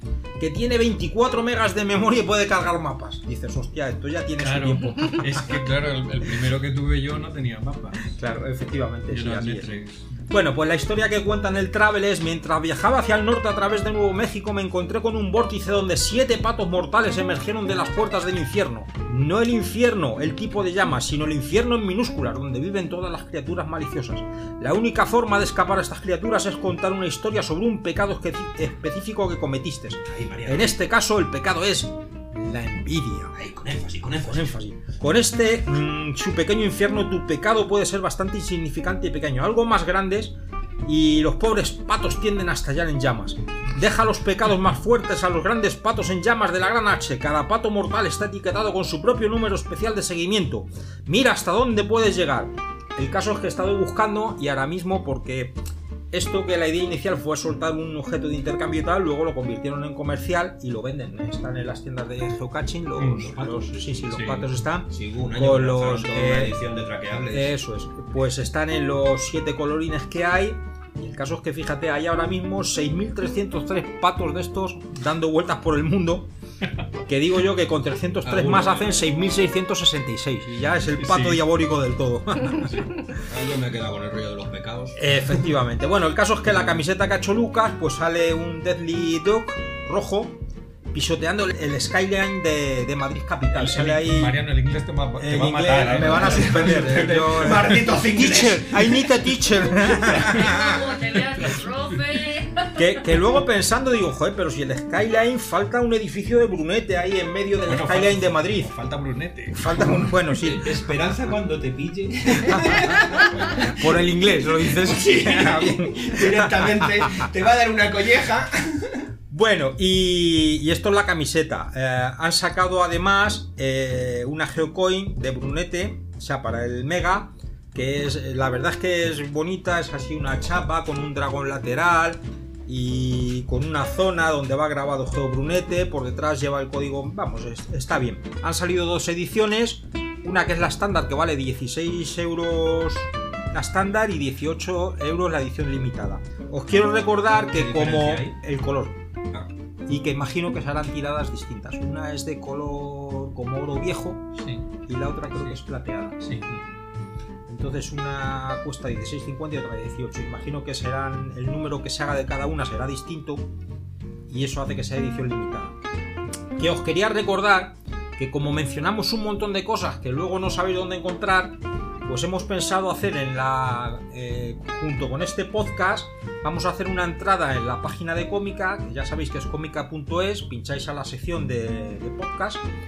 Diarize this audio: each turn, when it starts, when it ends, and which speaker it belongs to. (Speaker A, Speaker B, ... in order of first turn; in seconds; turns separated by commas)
Speaker A: 0.4-5.4, Speaker B: 4.4-8.2, Speaker A: 8.1-9.7, Speaker B: 9.1-10.2, Speaker A: 10.3-33.3, Speaker C: 30.1-30.8, Speaker C: 33.3-34.6, Speaker A: 34.2-40.3, Speaker A: 40.9-55.5, Speaker A: 56.1-66.5, Speaker B: 63.0-64.5, Speaker C: 63.2-63.8, Speaker C: 64.9-67.5, Speaker A: 67.3-76.3, Speaker A: 77.1-83.0, Speaker C: 78.2-79.1, Speaker B: 80.8-81.4, Speaker C: 83.2-85.0, Speaker A: 85.0-90.4, Speaker A: 90.9-94.4, Speaker B: 93.5-97.8, Speaker A: 95.2-100.5, Speaker C: 95.8-100.8, Speaker D: 100.3-103.0, Speaker A: 102.8-108.7, Speaker B: 107.7-110.1, Speaker A: 109.5-110.7, Speaker C: 110.2-119.1, Speaker A: 112.5-113.0, Speaker A: 113.5-117.1, Speaker A: 119.3-149.0, Speaker C: 147.5-148.3, Speaker A: 149.9-154.3, Speaker B: 154.4-154.6, Speaker A: 154.9-156.6, Speaker B: 155.3-155.6, Speaker B: 156.2-156.4, Speaker A: 157.5-163.4, Speaker A: 164.3-165.8, Speaker A: 166.6-182.6